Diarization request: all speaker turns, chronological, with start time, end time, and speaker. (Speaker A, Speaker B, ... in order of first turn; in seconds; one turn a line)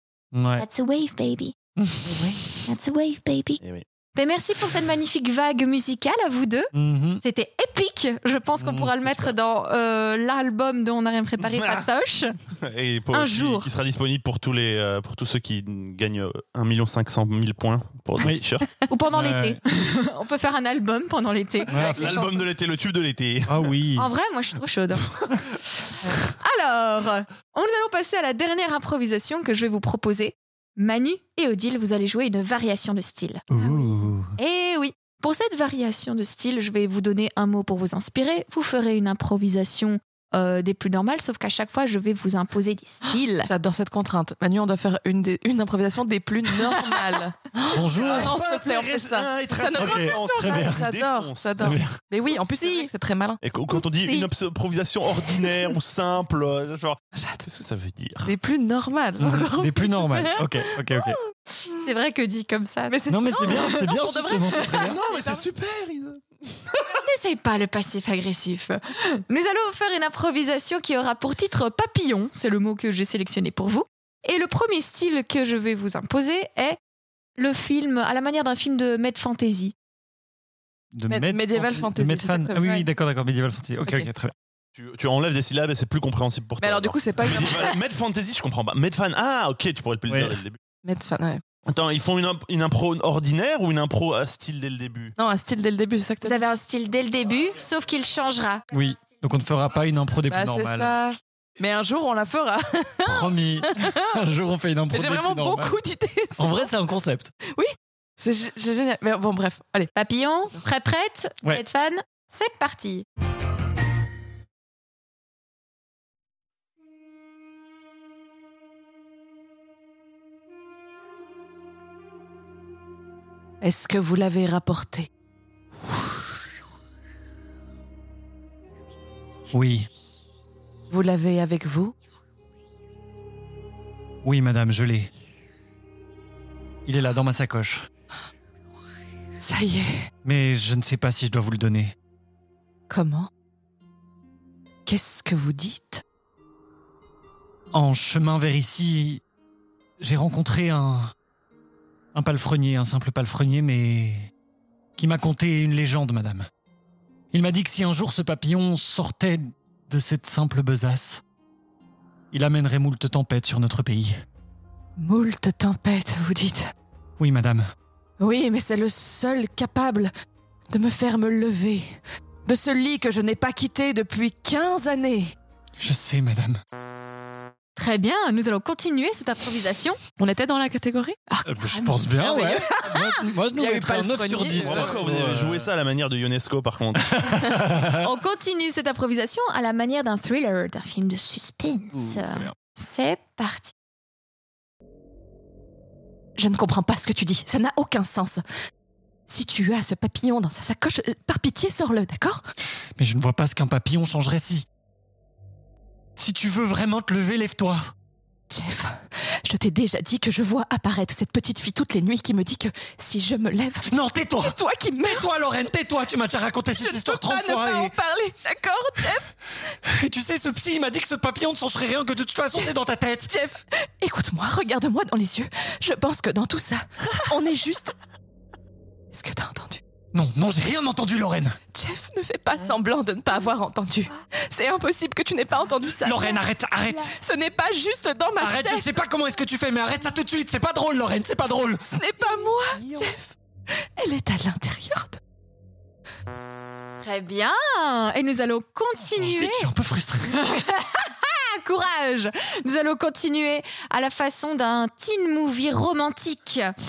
Speaker A: 0.3-0.7
Speaker B: 0.6-1.5
Speaker A: 1.8-2.3
Speaker C: 2.0-2.4
Speaker B: 2.7-3.6
Speaker B: 4.2-6.7
Speaker A: 6.7-7.2
Speaker B: 7.2-12.4
Speaker A: 8.6-9.3
Speaker D: 11.4-11.9
Speaker D: 12.6-18.7
Speaker B: 13.1-13.7
Speaker B: 18.9-22.5
Speaker A: 19.1-19.6
Speaker A: 21.7-22.1
Speaker D: 21.7-23.7
Speaker A: 23.5-24.1
Speaker B: 24.0-43.5
Speaker A: 33.5-34.4
Speaker C: 43.5-53.4
Speaker B: 46.6-47.1
Speaker A: 47.7-48.4
Speaker D: 48.0-51.7
Speaker A: 49.7-50.9
Speaker A: 51.6-52.0
Speaker B: 52.3-52.9
Speaker D: 53.4-58.3
Speaker B: 53.7-54.3
Speaker C: 57.1-57.5
Speaker C: 58.2-61.8
Speaker A: 59.2-61.2
Speaker B: 61.8-63.9
Speaker C: 62.9-65.5
Speaker A: 63.1-65.0
Speaker B: 64.5-64.8
Speaker D: 64.8-67.0
Speaker B: 66.8-76.8
Speaker B: 77.4-79.7
Speaker A: 80.9-84.3
Speaker C: 81.1-82.9
Speaker D: 84.8-90.6
Speaker C: 86.6-87.8
Speaker A: 90.1-90.4
Speaker C: 90.8-91.4
Speaker D: 91.7-95.2
Speaker C: 95.2-96.4
Speaker B: 96.2-98.7
Speaker A: 98.7-100.9
Speaker C: 100.3-104.1
Speaker A: 103.1-105.8
Speaker C: 104.9-106.7
Speaker A: 106.4-107.3
Speaker C: 107.5-109.9
Speaker B: 110.0-113.1
Speaker C: 123.6-125.1
Speaker A: 129.5-129.9
Speaker C: 130.9-131.9
Speaker A: 134.2-135.1
Speaker A: 136.9-137.9
Speaker C: 139.4-140.1
Speaker A: 140.2-141.9
Speaker C: 142.9-143.3
Speaker C: 144.9-146.0
Speaker A: 147.7-149.2
Speaker A: 150.0-151.1
Speaker A: 152.1-154.3
Speaker A: 155.0-156.5
Speaker A: 157.3-161.2
Speaker A: 162.3-164.2
Speaker C: 165.0-166.7
Speaker A: 167.2-167.6
Speaker C: 168.2-170.1
Speaker C: 170.7-175.3
Speaker A: 175.8-176.6
Speaker B: 177.8-180.0
Speaker C: 180.2-181.2
Speaker B: 181.3-182.1
Speaker A: 181.4-185.7
Speaker C: 182.2-185.0
Speaker D: 184.5-187.4
Speaker A: 187.0-188.1
Speaker B: 187.9-193.7
Speaker A: 191.9-192.5
Speaker C: 196.4-198.4
Speaker C: 199.3-202.4
Speaker A: 203.0-204.7
Speaker A: 206.2-207.9
Speaker C: 208.5-215.3
Speaker A: 213.9-217.9
Speaker C: 216.7-219.3
Speaker A: 219.8-223.3
Speaker C: 223.3-228.0
Speaker C: 229.1-229.8
Speaker A: 230.1-231.6
Speaker C: 231.7-236.4
Speaker A: 236.0-237.2
Speaker C: 237.0-239.0
Speaker A: 238.4-241.9
Speaker C: 241.9-245.2
Speaker A: 242.8-243.1
Speaker B: 247.0-249.7
Speaker A: 249.2-250.6
Speaker B: 250.2-256.7